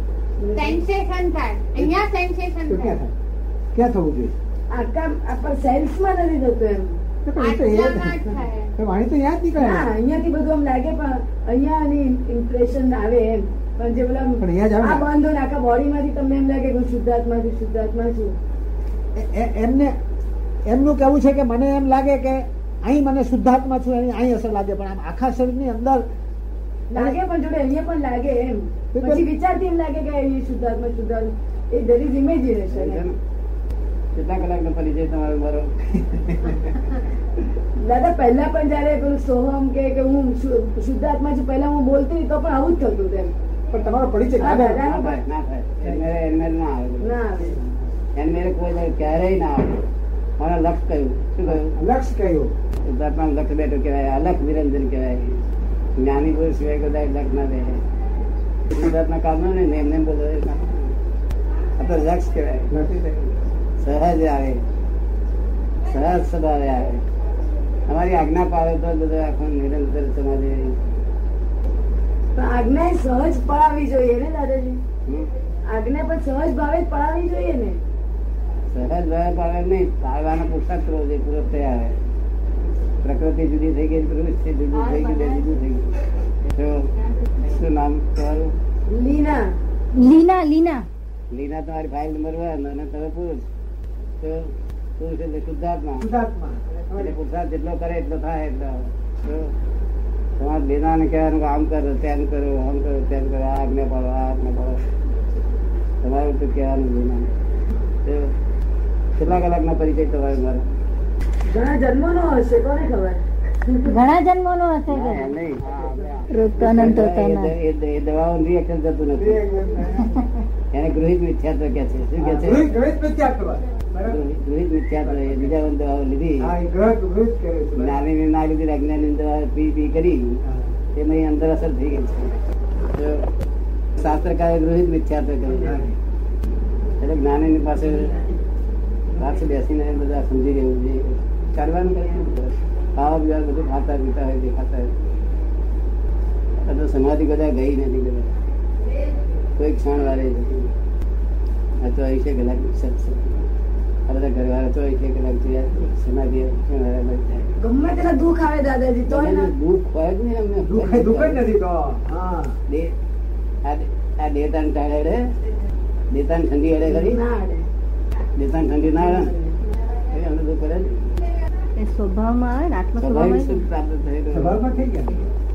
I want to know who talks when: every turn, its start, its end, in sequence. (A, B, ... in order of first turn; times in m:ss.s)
0:00.4-0:00.8 A
0:00.5-0:03.0 B
0:02.7-0:03.1 C
0:03.7-0:04.3 C
0:04.7-0:07.0 A
0:07.2-0:09.9 C
0:07.4-0:08.7 B
0:09.6-0:18.4 A
0:14.4-0:15.1 C
0:19.1-0:20.0 C
0:20.6-0:26.0 C
0:26.9-0:33.0 A
0:28.9-0:29.2 C
0:32.7-0:33.2 D
0:34.2-0:35.7 D
0:37.8-0:43.3 A
0:43.7-0:44.8 C
0:44.4-0:45.2 A
0:44.7-0:47.2 D
0:47.0-0:47.6 A
0:48.2-0:49.8 D
0:50.4-0:51.7 D
0:51.4-0:52.5 C
0:52.8-0:55.4 D
0:56.0-0:57.8 D
0:58.7-1:00.9 D
1:01.8-1:02.7 D
1:02.7-1:03.2 C
1:03.8-1:04.6 D
1:05.9-1:07.0 D
1:07.9-1:10.7 D
1:12.3-1:14.8 A
1:15.6-1:17.8 A
1:18.7-1:21.9 D
1:23.0-1:25.9 D
1:26.4-1:28.5 D
1:28.9-1:29.5 A
1:29.9-1:30.8 E
1:31.3-1:33.4 D
1:34.2-1:36.1 D
1:36.0-1:37.2 C
1:36.9-1:39.5 D
1:40.4-1:44.8 D
1:46.0-1:47.3 D
1:48.0-1:48.3 D
1:49.2-1:50.6 D
1:51.5-1:53.9 A
1:53.8-1:55.3 E
1:54.9-1:59.4 D
1:56.3-1:57.5 E
1:59.1-2:00.1 C
2:00.7-2:02.7 D
2:02.2-2:04.2 C
2:04.0-2:06.5 D
2:05.0-2:05.5 C
2:06.4-2:08.0 C
2:07.8-2:10.4 D
2:10.4-2:10.7 C
2:11.0-2:12.3 D
2:12.9-2:13.2 D
2:14.0-2:15.8 D
2:15.5-2:16.0 C
2:17.0-2:18.2 D
2:19.2-2:24.9 D
2:26.6-2:28.3 D
2:29.6-2:30.7 D
2:31.8-2:33.5 D
2:34.1-2:37.5 D
2:37.6-2:39.5 A
2:39.1-2:41.4 D
2:40.6-2:42.6 C
2:42.7-2:42.9 D
2:43.6-2:45.2 D
2:46.1-2:47.2 D
2:46.9-2:47.6 A
2:48.4-2:49.3 D
2:49.0-2:49.5 A
2:50.1-2:51.1 D
2:51.8-2:53.6 E
2:53.0-2:54.6 D
2:54.3-2:55.3 C